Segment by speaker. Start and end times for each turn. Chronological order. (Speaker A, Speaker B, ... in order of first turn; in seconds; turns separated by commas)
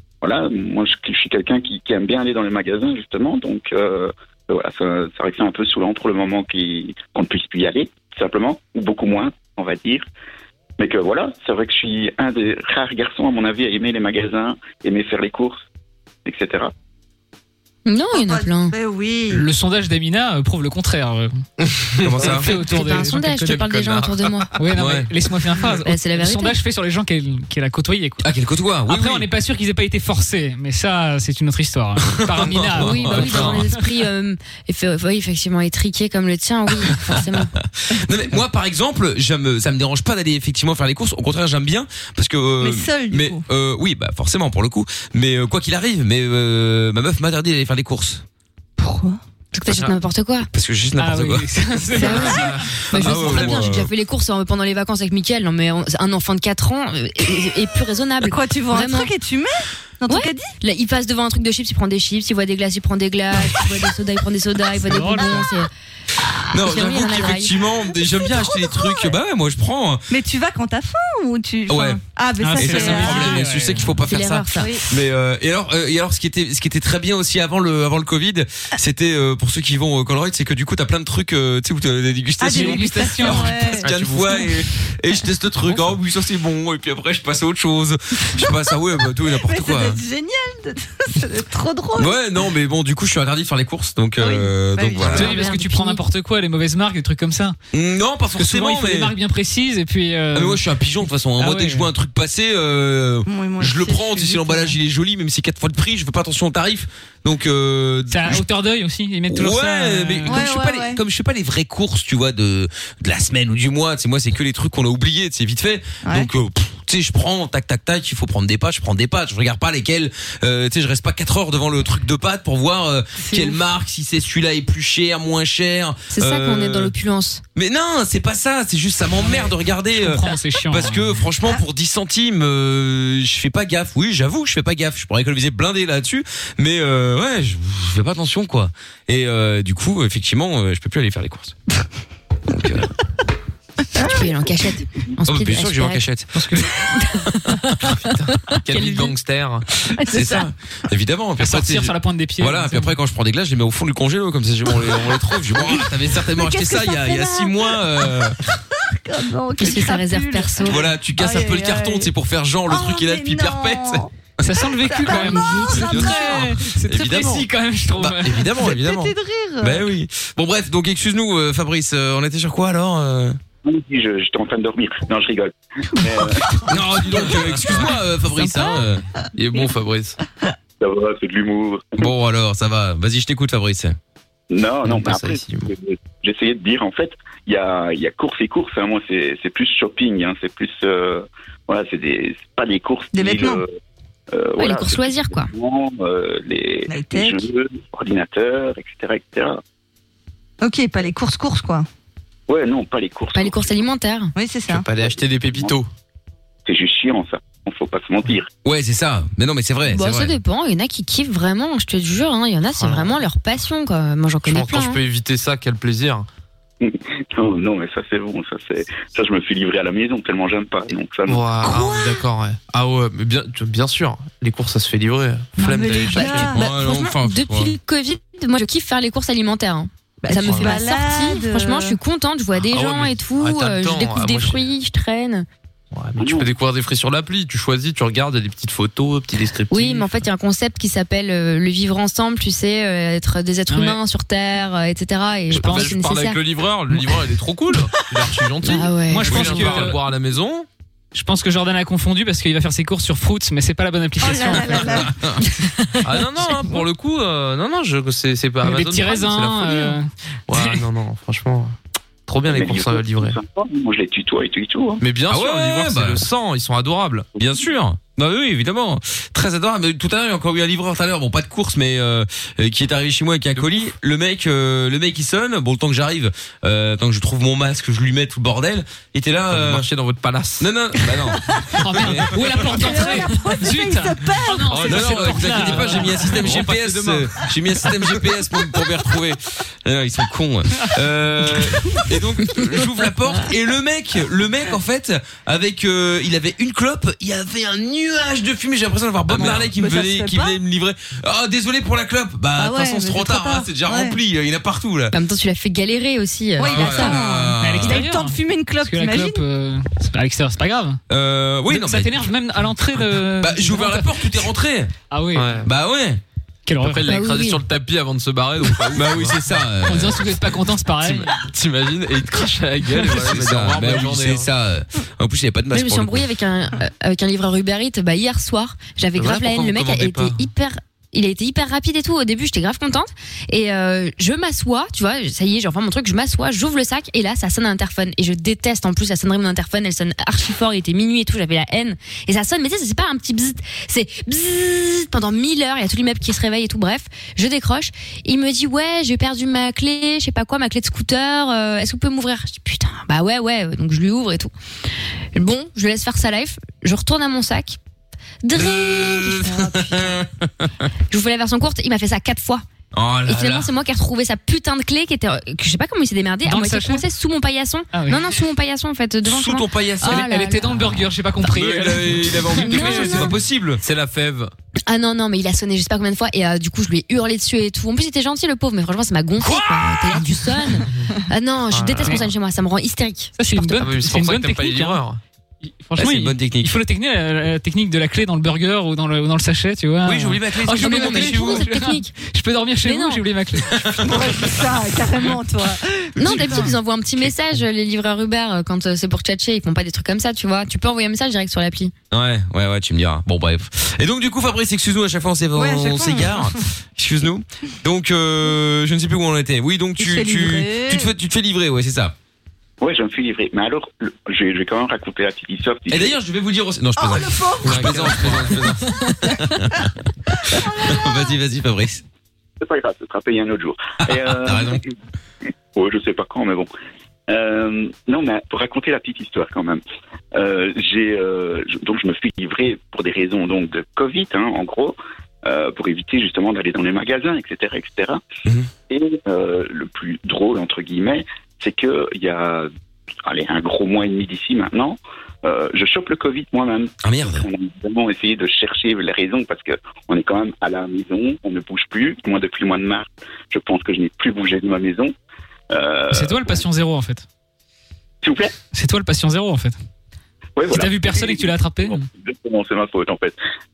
Speaker A: 0.2-10.0, Speaker A: 10.8-15.6, Speaker A: 16.2-16.7, Speaker B: 17.9-18.7, Speaker C: 18.1-19.4, Speaker D: 19.3-21.4, Speaker E: 22.0-24.3, Speaker F: 22.0-22.5, Speaker D: 22.2-23.6, Speaker B: 22.3-24.5, Speaker D: 24.6-28.2, Speaker F: 24.7-25.1, Speaker B: 25.8-26.6, Speaker F: 28.2-29.3, Speaker D: 28.9-33.7, Speaker F: 32.2-33.6, Speaker B: 32.8-37.5, Speaker F: 37.9-48.2, Speaker C: 42.6-43.4, Speaker C: 48.8-49.2, Speaker B: 49.5-50.5, Speaker F: 50.5-52.2, Speaker D: 51.0-53.3, Speaker B: 52.0-59.1, Speaker E: 52.2-53.5, Speaker F: 52.9-53.9, Speaker C: 58.2-60.5, Speaker B: 60.1-65.7, Speaker D: 64.8-65.5, Speaker F: 66.5-70.1, Speaker B: 66.5-67.5, Speaker C: 68.4-69.1, Speaker C: 70.1-73.4, Speaker F: 71.7-72.0, Speaker D: 72.4-73.9, Speaker F: 72.5-90.0, Speaker B: 74.0-74.7, Speaker C: 74.5-74.8, Speaker C: 82.4-83.9, Speaker D: 82.5-83.7, Speaker E: 83.8-84.5, Speaker C: 89.4-92.1, Speaker F: 92.0-95.4, Speaker C: 94.2-95.4, Speaker B: 95.1-96.0, Speaker D: 95.1-97.5, Speaker F: 97.7-99.1, Speaker D: 98.3-100.6, Speaker F: 100.3-108.4, Speaker D: 101.4-101.9, Speaker C: 103.3-104.8, Speaker D: 108.1-110.4, Speaker F: 109.3-126.9, Speaker C: 110.3-111.0, Speaker C: 116.0-116.3, Speaker C: 123.2-123.6, Speaker B: 126.1-127.4, Speaker F: 127.5-141.5, Speaker D: 129.1-131.2, Speaker F: 142.5-142.9, Speaker B: 143.9-146.0, Speaker F: 145.2-146.6, Speaker D: 146.4-146.7, Speaker E: 147.9-149.7, Speaker F: 150.1-158.4, Speaker D: 151.4-152.9, Speaker C: 156.2-158.1, Speaker C: 158.8-162.1, Speaker B: 159.6-160.8, Speaker F: 160.6-164.1, Speaker C: 162.7-164.1, Speaker D: 164.4-168.5, Speaker C: 164.8-166.5, Speaker B: 165.1-165.9, Speaker F: 165.8-173.4, Speaker C: 168.6-169.8, Speaker A: 173.6-176.5, Speaker C: 175.9-177.3, Speaker F: 176.7-179.0, Speaker E: 177.4-177.8, Speaker C: 178.3-179.7, Speaker E: 179.3-180.2, Speaker A: 180.8-182.1, Speaker F: 182.0-183.9, Speaker A: 184.5-193.8, Speaker E: 184.8-185.7, Speaker C: 193.1-193.6, Speaker A: 194.3-199.6, Speaker B: 194.6-195.5, Speaker C: 196.9-197.4, Speaker C: 200.6-201.9, Speaker A: 202.5-203.9, Speaker B: 203.3-204.3, Speaker C: 204.3-204.9, Speaker E: 204.7-205.9, Speaker A: 205.0-205.7, Speaker A: 206.7-208.5, Speaker F: 208.6-210.3, Speaker B: 209.9-215.0, Speaker E: 212.8-213.2, Speaker E: 214.4-216.3, Speaker A: 216.8-221.5, Speaker E: 221.3-226.5, Speaker C: 221.6-222.2, Speaker C: 225.6-226.7, Speaker F: 226.2-227.7, Speaker B: 226.6-235.5, Speaker C: 230.2-232.0, Speaker E: 230.4-230.7, Speaker E: 232.6-234.7, Speaker E: 235.9-240.2, Speaker A: 236.2-236.5, Speaker B: 239.7-246.4, Speaker D: 243.7-244.0, Speaker E: 245.5-250.7, Speaker D: 245.6-245.9, Speaker B: 248.6-249.7, Speaker D: 249.1-250.0, Speaker D: 251.1-255.1, Speaker C: 254.2-255.1, Speaker F: 254.8-255.4, Speaker E: 256.0-260.0, Speaker D: 258.6-260.8, Speaker E: 260.5-261.8, Speaker E: 262.3-263.4, Speaker A: 262.5-265.0, Speaker E: 265.0-267.3, Speaker F: 265.3-266.2, Speaker F: 267.4-279.8, Speaker E: 279.5-280.7, Speaker F: 280.6-283.0, Speaker D: 281.8-286.4, Speaker C: 282.6-285.0, Speaker E: 284.7-288.1, Speaker F: 284.8-305.1, Speaker C: 299.3-300.6, Speaker C: 302.6-304.2, Speaker B: 305.1-307.2, Speaker C: 306.6-309.4, Speaker F: 306.6-308.1, Speaker D: 307.6-311.0, Speaker F: 311.1-312.2, Speaker D: 311.7-314.4, Speaker F: 313.4-314.9, Speaker D: 315.1-315.7, Speaker E: 315.3-315.7, Speaker F: 315.6-316.2, Speaker D: 316.6-317.1, Speaker E: 316.8-319.4, Speaker B: 317.1-317.6, Speaker F: 318.9-320.3, Speaker D: 319.9-321.4, Speaker E: 321.0-324.5, Speaker F: 322.9-326.3, Speaker B: 325.7-354.5, Speaker E: 329.2-330.4, Speaker B: 355.3-357.8, Speaker B: 358.4-360.1, Speaker F: 358.5-360.7, Speaker B: 361.1-362.6, Speaker F: 362.9-363.7, Speaker B: 363.3-370.8, Speaker D: 366.4-367.1, Speaker D: 367.9-368.3, Speaker F: 369.2-370.3, Speaker D: 370.0-373.3, Speaker F: 371.4-373.8, Speaker B: 372.6-373.3, Speaker E: 373.8-374.5, Speaker B: 374.9-383.8, Speaker F: 379.4-380.2, Speaker E: 381.7-382.2, Speaker D: 383.4-385.0, Speaker E: 383.8-385.2, Speaker D: 385.7-394.1, Speaker F: 386.0-386.8, Speaker F: 390.0-391.6, Speaker B: 390.8-392.1, Speaker B: 392.8-393.2, Speaker F: 393.7-394.4, Speaker C: 394.0-396.7, Speaker B: 396.2-401.9, Speaker F: 402.1-412.1, Speaker C: 405.6-406.5, Speaker C: 410.0-411.1, Speaker A: 412.8-416.1, Speaker F: 415.9-419.9, Speaker C: 417.0-418.4, Speaker E: 417.6-418.7, Speaker C: 420.5-421.0, Speaker F: 420.5-422.0, Speaker A: 422.6-424.8, Speaker F: 424.0-424.8, Speaker A: 425.7-426.7, Speaker A: 427.3-429.8, Speaker A: 430.3-438.2, Speaker F: 438.4-438.7, Speaker A: 438.9-442.7, Speaker A: 443.2-455.1, Speaker F: 447.0-447.4, Speaker A: 455.7-456.6, Speaker D: 456.1-457.2, Speaker A: 458.2-458.5, Speaker D: 458.7-459.8, Speaker A: 460.6-463.4, Speaker D: 460.7-462.1